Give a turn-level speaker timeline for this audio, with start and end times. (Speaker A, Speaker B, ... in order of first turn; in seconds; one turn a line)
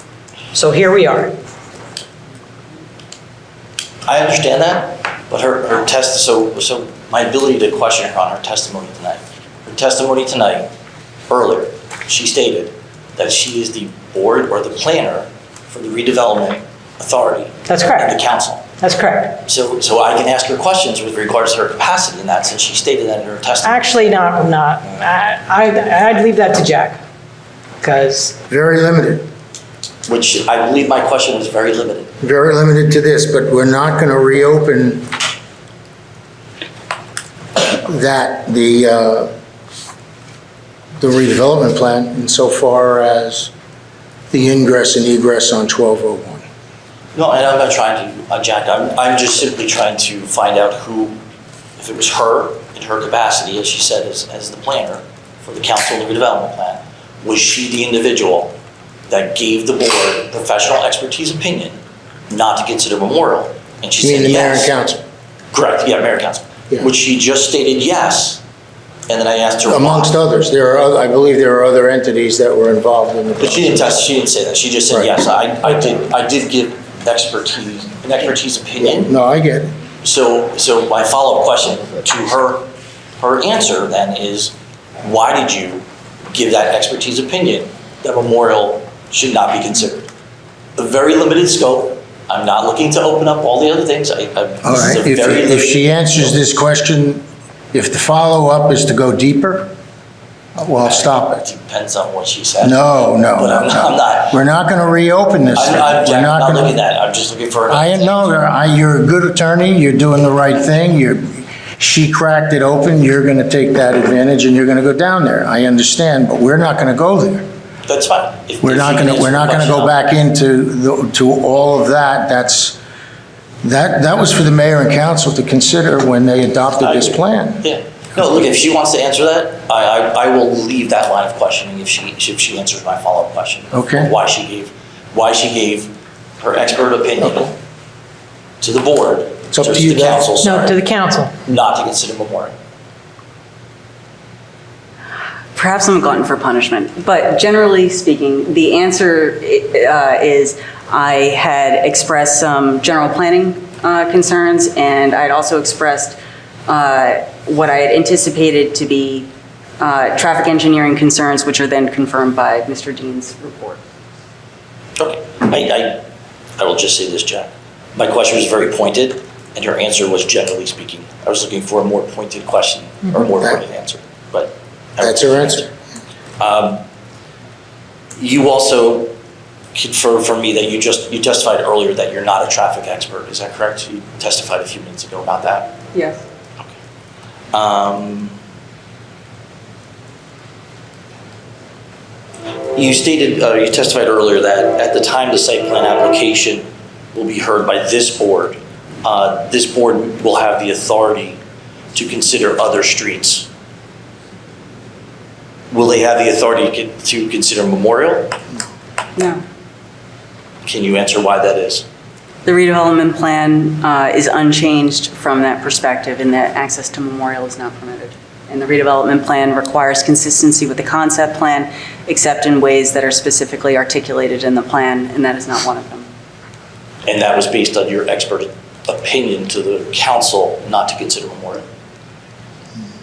Speaker A: 0.5-1.4
Speaker B: 4.1-10.7
Speaker B: 11.3-18.6
Speaker A: 17.7-18.2
Speaker A: 18.8-19.4
Speaker B: 19.4-23.9
Speaker A: 23.6-27.0
Speaker A: 27.8-28.4
Speaker C: 28.5-29.2
Speaker B: 30.1-32.1
Speaker C: 32.2-35.1
Speaker C: 37.5-39.3
Speaker C: 41.0-43.5
Speaker C: 44.3-46.5
Speaker B: 47.1-51.2
Speaker B: 51.8-58.5
Speaker B: 59.1-61.8
Speaker B: 62.3-64.7
Speaker C: 64.0-65.0
Speaker B: 65.5-68.4
Speaker B: 69.1-70.2
Speaker C: 69.6-73.8
Speaker B: 73.4-79.1
Speaker C: 78.8-79.7
Speaker B: 80.0-82.7
Speaker B: 83.2-90.1
Speaker B: 90.8-96.4
Speaker C: 94.6-99.7
Speaker C: 100.5-101.4
Speaker B: 100.8-104.4
Speaker C: 102.6-106.7
Speaker B: 105.5-108.3
Speaker C: 107.7-117.5
Speaker B: 117.9-120.0
Speaker C: 118.6-122.8
Speaker C: 123.6-127.6
Speaker B: 126.8-137.5
Speaker C: 133.7-134.1
Speaker C: 137.2-137.5
Speaker B: 138.6-140.8
Speaker C: 139.5-140.2
Speaker A: 140.4-141.3
Speaker B: 141.5-142.5
Speaker D: 145.6-159.3
Speaker D: 159.8-163.8
Speaker B: 165.0-166.0
Speaker B: 166.6-175.7
Speaker C: 175.0-175.7
Speaker B: 176.4-176.8
Speaker B: 178.2-179.1
Speaker B: 179.8-185.8
Speaker D: 185.9-186.2
Speaker B: 187.5-188.4
Speaker B: 192.8-201.4
Speaker B: 201.9-203.5
Speaker B: 205.7-208.4
Speaker D: 209.2-209.4
Speaker B: 210.7-211.8
Speaker D: 212.5-226.1
Speaker B: 227.1-231.7